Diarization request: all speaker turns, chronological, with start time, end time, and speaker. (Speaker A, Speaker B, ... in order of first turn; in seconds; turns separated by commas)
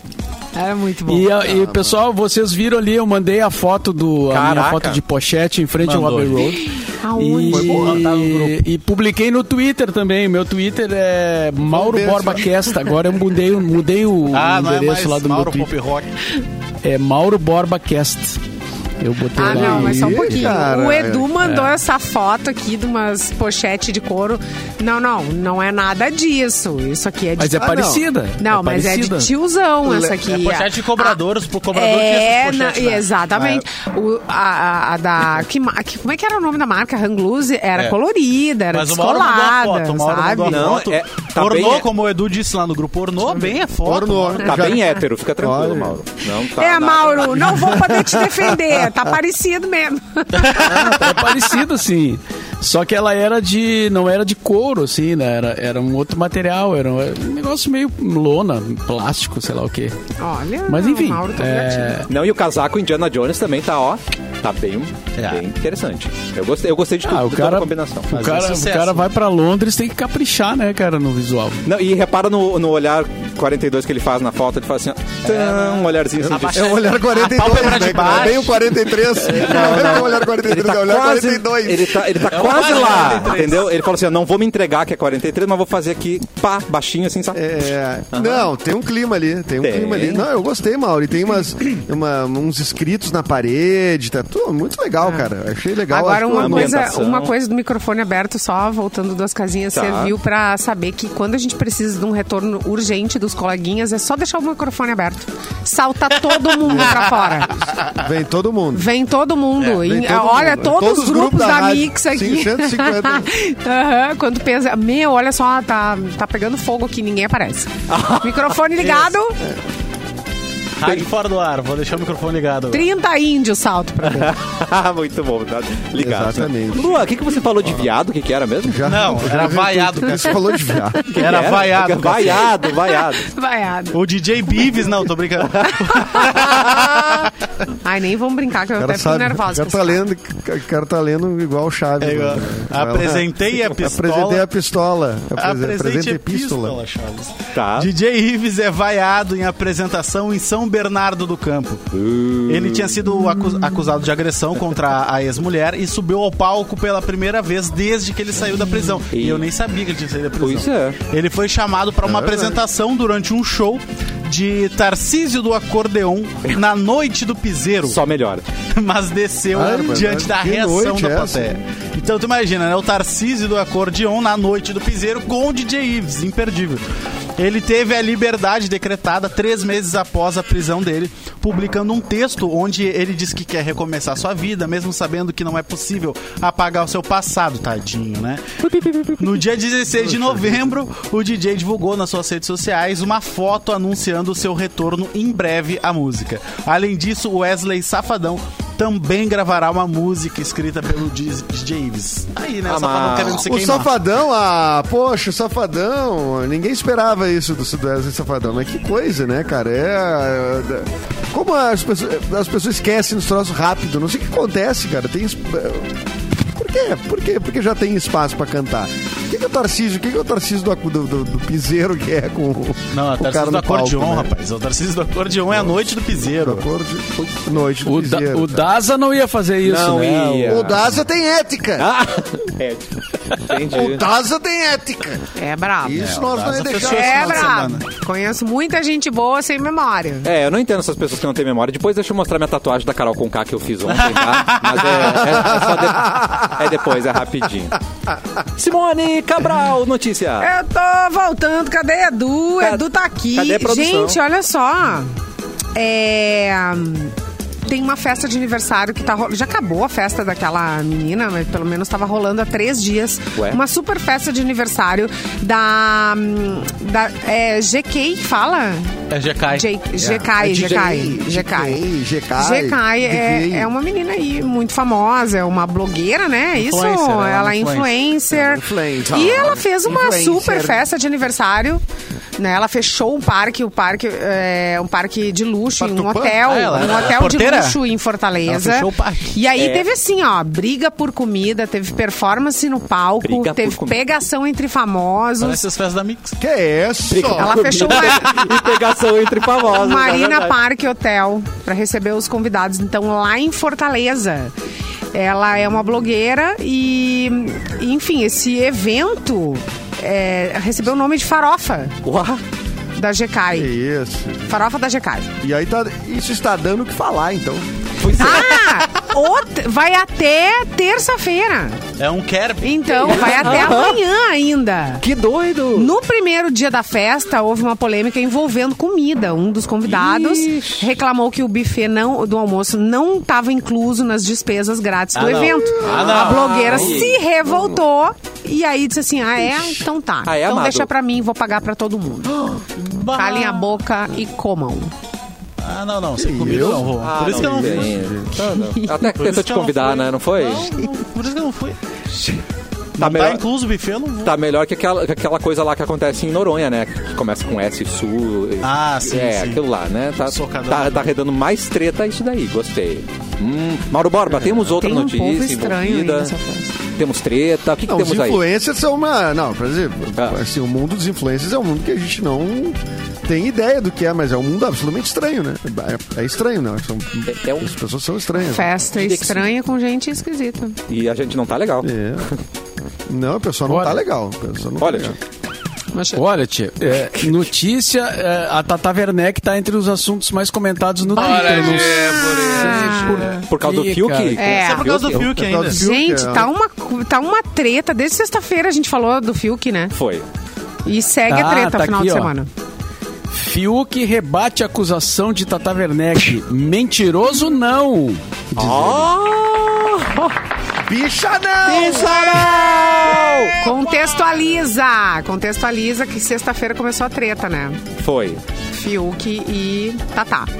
Speaker A: 0.5-1.4, Speaker B: 1.1-15.7, Speaker C: 1.4-2.0, Speaker D: 4.3-5.0, Speaker E: 5.8-6.6, Speaker A: 6.9-8.0, Speaker C: 7.5-8.0, Speaker E: 7.7-8.6, Speaker C: 11.7-12.5, Speaker E: 14.3-16.1, Speaker B: 16.8-18.4, Speaker B: 19.0-20.5, Speaker A: 19.3-31.2, Speaker C: 19.4-21.3, Speaker B: 21.4-21.7, Speaker B: 27.4-29.3, Speaker C: 27.6-28.0, Speaker C: 29.8-30.1, Speaker E: 30.2-33.6, Speaker A: 31.7-40.7, Speaker E: 38.7-44.5, Speaker D: 40.4-41.9, Speaker C: 43.8-44.9, Speaker D: 44.4-47.8, Speaker C: 45.4-46.0, Speaker A: 46.5-51.0, Speaker C: 47.7-48.4, Speaker B: 50.5-60.0, Speaker A: 60.2-62.0, Speaker B: 60.6-62.1, Speaker D: 62.1-68.1, Speaker E: 65.2-65.4, Speaker B: 67.0-71.6, Speaker E: 68.1-69.0, Speaker D: 71.6-76.8, Speaker E: 75.2-78.7, Speaker C: 76.4-82.6, Speaker D: 79.3-88.5, Speaker E: 82.3-83.7, Speaker C: 87.3-96.9, Speaker D: 89.6-90.2, Speaker A: 95.0-95.3, Speaker A: 95.9-107.7, Speaker D: 96.3-97.3, Speaker D: 99.7-100.1, Speaker C: 106.7-106.9, Speaker C: 107.9-108.9, Speaker A: 108.7-119.4, Speaker C: 109.6-113.3, Speaker D: 117.9-118.6, Speaker E: 120.8-122.8, Speaker A: 122.7-124.3, Speaker D: 124.0-129.3, Speaker C: 126.0-127.1, Speaker C: 128.6-131.1, Speaker E: 128.8-130.4, Speaker E: 131.1-132.5, Speaker D: 131.1-133.3, Speaker A: 132.7-134.0, Speaker E: 133.9-137.3, Speaker D: 135.4-136.8, Speaker A: 135.8-136.6, Speaker A: 137.7-140.0, Speaker C: 138.8-146.8, Speaker E: 142.0-144.4, Speaker E: 145.4-151.8, Speaker D: 147.5-147.9, Speaker D: 151.9-153.0, Speaker E: 152.5-168.0, Speaker D: 159.1-159.4, Speaker D: 160.4-161.0, Speaker C: 162.0-162.6, Speaker D: 167.9-168.4, Speaker E: 168.7-176.8, Speaker C: 169.5-171.6, Speaker E: 177.4-188.6, Speaker D: 188.7-189.1, Speaker E: 189.1-203.9, Speaker C: 190.1-190.6, Speaker D: 202.7-203.4, Speaker C: 203.4-224.3, Speaker E: 222.9-226.7, Speaker C: 226.3-228.7, Speaker D: 227.2-227.5, Speaker B: 227.8-230.7, Speaker D: 229.6-230.9, Speaker C: 230.4-231.9, Speaker D: 231.8-234.1, Speaker C: 233.7-235.2, Speaker A: 235.3-236.1, Speaker C: 235.8-237.6, Speaker E: 236.0-237.9, Speaker A: 236.7-240.3, Speaker D: 240.2-247.8, Speaker E: 243.9-245.3, Speaker C: 245.3-246.5, Speaker D: 248.6-250.5, Speaker A: 250.4-255.1, Speaker D: 252.6-254.2, Speaker A: 255.7-257.1, Speaker A: 257.6-271.8, Speaker D: 263.4-263.6, Speaker E: 269.1-269.7, Speaker C: 270.0-273.7, Speaker A: 272.4-281.8, Speaker E: 276.6-278.0, Speaker C: 278.3-280.8, Speaker D: 279.1-279.6, Speaker A: 282.4-295.6, Speaker C: 285.8-286.4, Speaker E: 286.4-287.8, Speaker E: 288.4-289.3, Speaker D: 289.5-289.9, Speaker D: 293.2-294.0, Speaker E: 295.4-296.3, Speaker C: 296.4-297.7, Speaker D: 297.1-300.6, Speaker A: 297.3-298.8, Speaker A: 299.5-304.5, Speaker A: 305.1-311.9, Speaker D: 312.0-312.4, Speaker A: 312.9-313.7, Speaker C: 313.5-314.6, Speaker A: 314.5-315.3, Speaker C: 315.4-317.7, Speaker D: 318.0-318.6, Speaker A: 318.1-321.8, Speaker E: 322.0-323.7, Speaker A: 322.6-325.0, Speaker D: 323.0-324.0, Speaker D: 325.0-325.9, Speaker A: 325.7-342.6, Speaker D: 329.8-330.9, Speaker E: 335.1-337.1, Speaker D: 335.8-337.8, Speaker D: 340.2-340.9, Speaker E: 342.7-343.7, Speaker A: 343.1-344.9, Speaker E: 345.6-348.2, Speaker C: 346.2-348.3, Speaker D: 346.4-350.7, Speaker A: 348.4-349.1, Speaker E: 349.1-351.8, Speaker D: 352.1-352.4, Speaker E: 353.0-354.3, Speaker D: 353.0-353.4, Speaker D: 354.2-366.3, Speaker E: 358.6-359.6, Speaker E: 360.2-361.1, Speaker A: 364.7-366.8, Speaker D: 367.0-368.4, Speaker C: 367.8-378.7, Speaker D: 377.3-377.7, Speaker A: 378.4-380.8, Speaker D: 378.9-379.5, Speaker D: 380.9-382.3, Speaker C: 381.8-382.3, Speaker C: 383.1-385.1, Speaker B: 383.7-384.0, Speaker D: 384.8-385.1, Speaker A: 385.9-386.2, Speaker B: 386.1-394.4, Speaker D: 387.1-387.4, Speaker A: 391.1-393.5, Speaker D: 393.5-395.3, Speaker A: 394.4-395.0, Speaker E: 394.5-395.9, Speaker C: 395.3-396.5, Speaker A: 395.7-399.9, Speaker D: 399.9-400.2, Speaker A: 400.8-402.5, Speaker B: 401.3-402.3, Speaker B: 403.3-409.1, Speaker D: 408.6-410.4, Speaker C: 410.8-413.5, Speaker D: 411.6-413.6, Speaker A: 413.6-417.8, Speaker D: 418.0-418.4, Speaker A: 418.7-420.5